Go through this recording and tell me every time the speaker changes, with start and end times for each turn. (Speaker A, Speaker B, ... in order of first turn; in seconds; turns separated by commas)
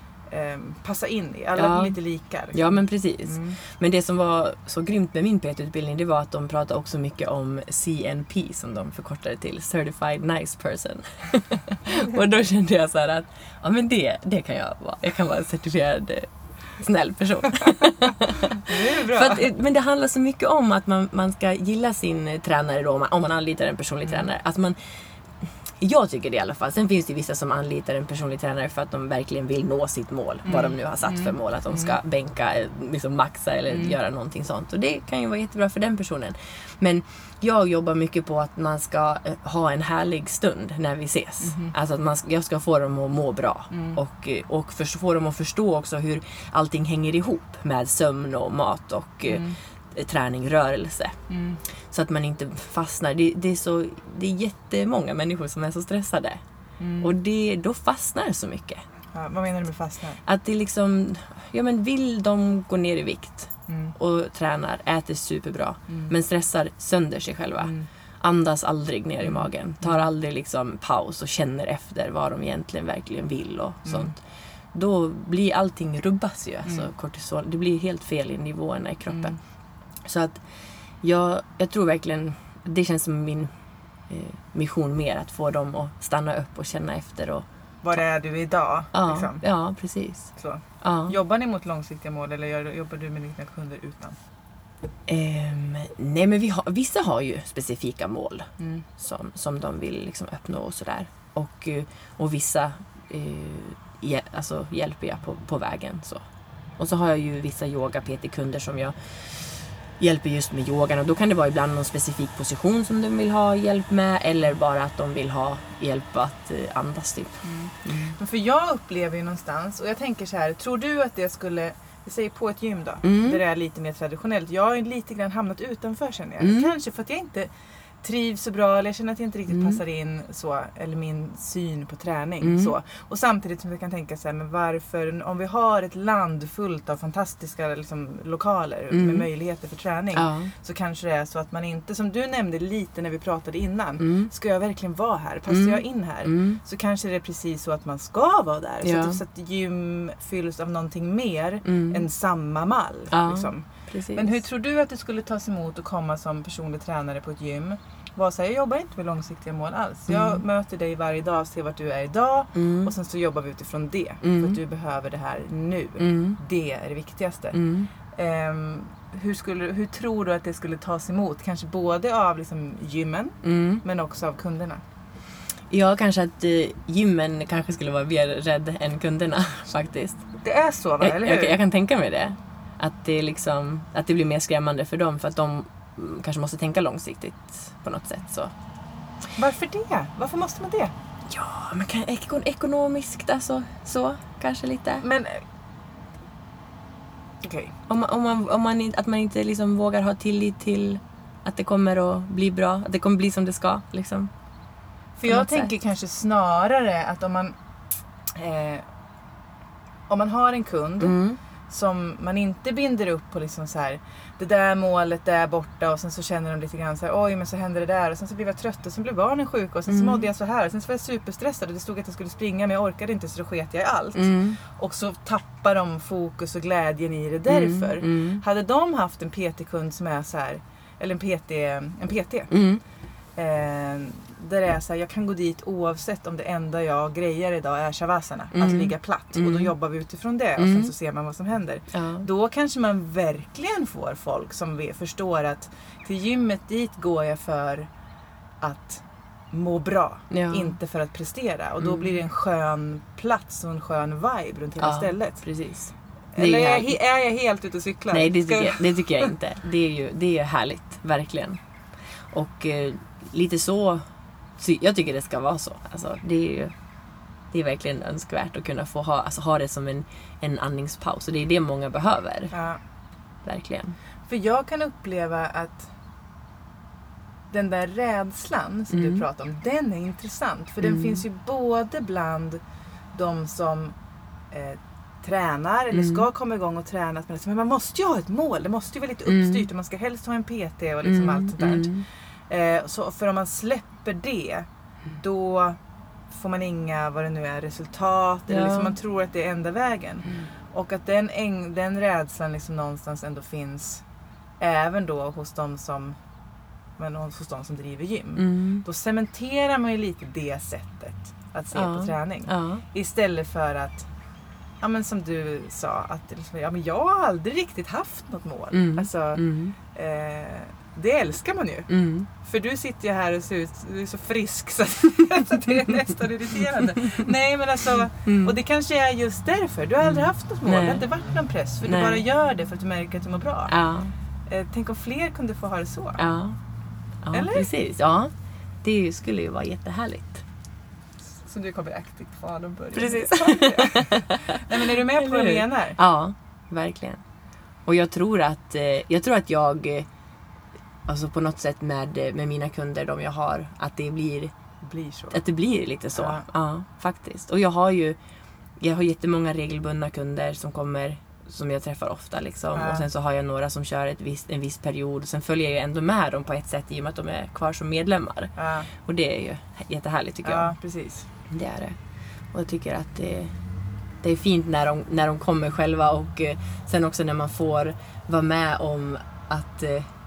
Speaker A: 0.3-3.6, Speaker B: 1.5-2.0, Speaker B: 2.5-51.1, Speaker A: 18.3-19.5, Speaker A: 30.4-31.9, Speaker A: 33.7-33.9, Speaker A: 41.4-41.7, Speaker A: 43.7-44.0, Speaker A: 49.3-49.6, Speaker A: 51.3-51.6, Speaker B: 51.9-56.4, Speaker A: 56.8-57.1, Speaker B: 57.0-58.8, Speaker A: 59.1-60.2, Speaker B: 60.2-74.2, Speaker A: 63.7-63.9, Speaker A: 67.6-67.9, Speaker A: 69.2-70.0, Speaker A: 73.8-74.1, Speaker B: 74.7-79.3, Speaker A: 79.1-79.3, Speaker B: 80.0-80.4, Speaker B: 81.0-83.5, Speaker B: 84.1-88.0, Speaker A: 87.8-89.4, Speaker B: 88.9-91.1, Speaker A: 90.3-94.2, Speaker B: 95.1-106.2, Speaker A: 98.6-98.8, Speaker B: 106.8-118.1, Speaker A: 117.4-127.5, Speaker B: 123.0-123.4, Speaker B: 126.4-126.7, Speaker A: 128.0-167.6, Speaker B: 129.5-129.8, Speaker B: 132.4-132.7, Speaker B: 138.9-139.3, Speaker B: 140.1-140.5, Speaker B: 144.0-144.3, Speaker B: 145.5-146.6, Speaker B: 148.8-149.2, Speaker B: 151.6-152.0, Speaker B: 153.1-154.4, Speaker B: 160.1-160.4, Speaker B: 162.5-162.9, Speaker B: 164.2-164.6, Speaker B: 166.0-166.4, Speaker B: 167.5-167.9, Speaker A: 168.1-174.8, Speaker B: 173.4-173.8, Speaker B: 175.7-180.2, Speaker A: 180.4-181.6, Speaker B: 181.0-188.5, Speaker A: 189.4-190.9, Speaker B: 191.3-195.0, Speaker A: 195.0-195.4, Speaker A: 197.4-197.7, Speaker B: 197.9-204.3, Speaker A: 205.2-207.5, Speaker B: 205.3-205.7, Speaker A: 208.4-208.8, Speaker A: 210.1-211.2, Speaker B: 211.0-211.4, Speaker A: 211.7-232.6, Speaker B: 219.9-220.2, Speaker B: 224.1-224.6, Speaker B: 227.5-228.4, Speaker B: 232.5-232.8, Speaker A: 233.4-247.9, Speaker B: 238.5-239.7, Speaker B: 240.6-240.9, Speaker B: 241.9-242.2, Speaker A: 248.6-255.4, Speaker B: 250.3-250.8, Speaker B: 251.8-252.2, Speaker B: 254.8-256.9, Speaker A: 256.4-259.3, Speaker B: 258.1-261.6, Speaker B: 262.3-264.0, Speaker B: 264.6-266.7, Speaker B: 267.5-272.5, Speaker A: 272.5-272.8, Speaker B: 273.4-273.9, Speaker A: 274.3-275.9, Speaker A: 277.5-282.6, Speaker B: 278.9-279.2, Speaker B: 280.8-281.2, Speaker A: 283.1-283.9, Speaker A: 284.5-291.9, Speaker B: 285.9-286.2, Speaker B: 289.3-289.6, Speaker B: 291.0-292.0, Speaker A: 292.5-294.7, Speaker A: 295.2-295.8, Speaker A: 296.3-304.0, Speaker B: 298.5-298.9, Speaker A: 304.6-306.2, Speaker A: 307.0-314.1, Speaker B: 308.4-308.8, Speaker B: 311.7-312.8, Speaker A: 314.8-321.9, Speaker B: 318.7-319.7, Speaker B: 321.9-322.3, Speaker A: 322.4-333.7, Speaker B: 328.2-328.6, Speaker B: 330.0-331.0, Speaker B: 331.8-332.2, Speaker B: 333.7-334.1, Speaker A: 334.5-336.2, Speaker B: 336.2-336.6, Speaker B: 337.2-340.4, Speaker A: 337.3-337.7, Speaker A: 341.3-346.0, Speaker B: 342.9-347.2, Speaker B: 347.9-350.1, Speaker B: 351.1-354.5, Speaker A: 354.8-355.4, Speaker B: 355.3-358.2, Speaker A: 356.1-356.4, Speaker B: 358.8-370.7, Speaker A: 362.7-363.1, Speaker A: 368.6-368.9, Speaker A: 370.4-371.3, Speaker B: 371.5-372.0, Speaker B: 372.5-373.5, Speaker B: 374.2-380.1